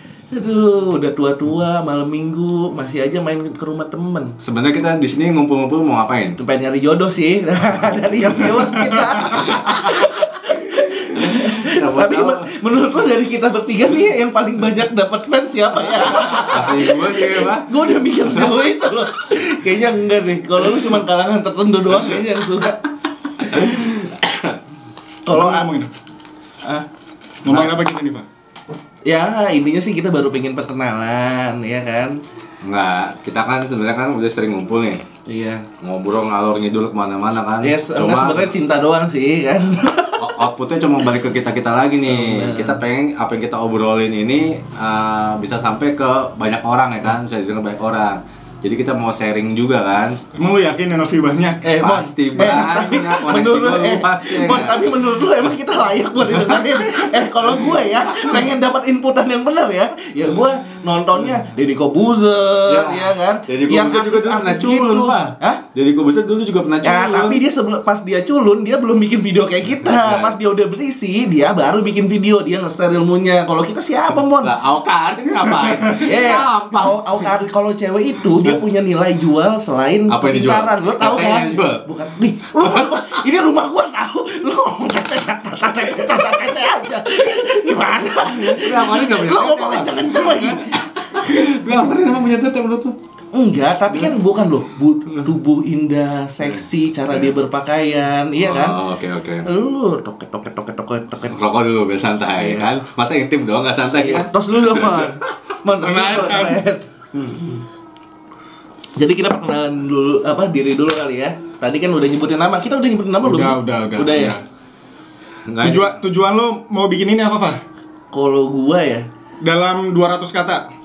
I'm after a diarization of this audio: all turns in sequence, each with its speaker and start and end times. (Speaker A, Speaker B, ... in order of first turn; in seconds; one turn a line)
Speaker A: 0.3-4.3
Speaker B: 4.4-6.4
Speaker A: 6.4-22.8
Speaker B: 9.3-10.1
Speaker B: 11.3-12.6
Speaker B: 16.1-17.7
Speaker A: 23.5-23.9
Speaker A: 25.2-25.7
Speaker C: 25.3-25.9
Speaker C: 27.4-28.2
Speaker A: 29.0-32.2
Speaker B: 32.6-35.0
Speaker A: 35.2-35.6
Speaker B: 35.8-38.5
Speaker A: 37.6-40.3
Speaker B: 40.2-50.2
Speaker A: 42.0-42.8
Speaker C: 50.4-51.7
Speaker A: 51.6-65.6
Speaker B: 51.8-54.9
Speaker B: 62.7-67.4
Speaker A: 66.8-74.5
Speaker B: 69.8-70.3
Speaker B: 74.4-77.0
Speaker A: 75.9-90.8
Speaker B: 80.1-81.8
Speaker B: 82.6-83.1
Speaker B: 88.3-93.0
Speaker A: 93.3-98.8
Speaker B: 98.4-99.5
Speaker A: 99.4-101.4
Speaker B: 101.3-105.1
Speaker A: 102.4-102.7
Speaker A: 104.0-107.3
Speaker C: 105.8-106.6
Speaker A: 109.0-114.4
Speaker C: 113.2-114.4
Speaker B: 115.5-116.0
Speaker C: 115.6-117.6
Speaker A: 118.1-119.1
Speaker C: 119.4-120.6